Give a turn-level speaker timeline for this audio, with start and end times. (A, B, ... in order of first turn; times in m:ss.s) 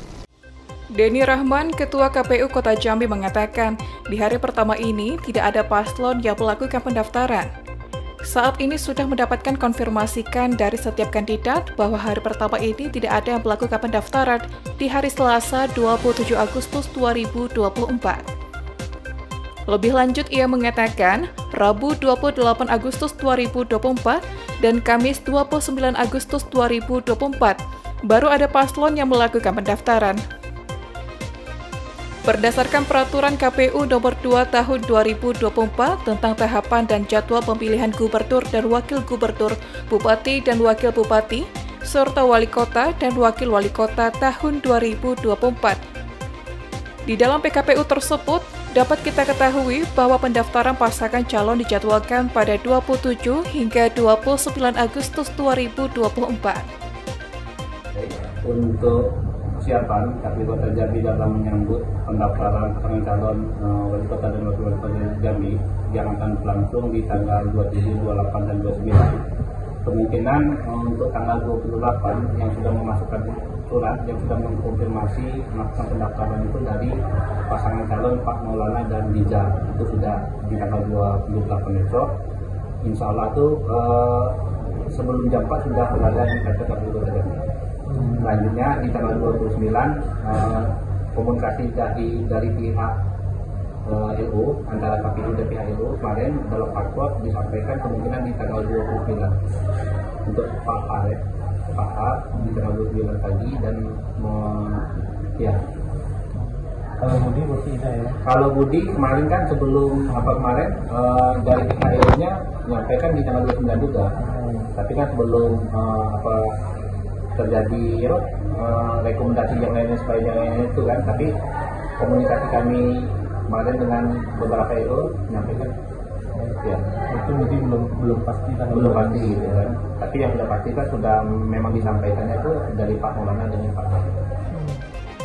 0:01.0-0:07.5 A
0:08.3-0:18.3 A
0:19.7-0:30.2 A
0:32.3-0:45.8 A
0:47.1-0:56.6 A
0:57.9-1:09.2 B
1:09.8-1:17.0 B
1:17.5-1:22.1 B
1:22.8-1:27.4 B
1:27.9-1:28.3 C
1:28.0-1:33.0 B
1:33.8-1:39.4 B
1:40.3-1:45.6 B
1:42.4-1:42.6 C
1:46.4-1:48.2 C
1:48.2-1:54.2 B
1:54.2-1:54.7 C
1:54.7-1:56.6 B
1:57.4-2:01.4 B
2:02.0-2:05.8 B
2:06.4-2:09.6 C
2:06.6-2:06.9 B
2:08.7-2:14.1 B
2:14.6-2:14.8 C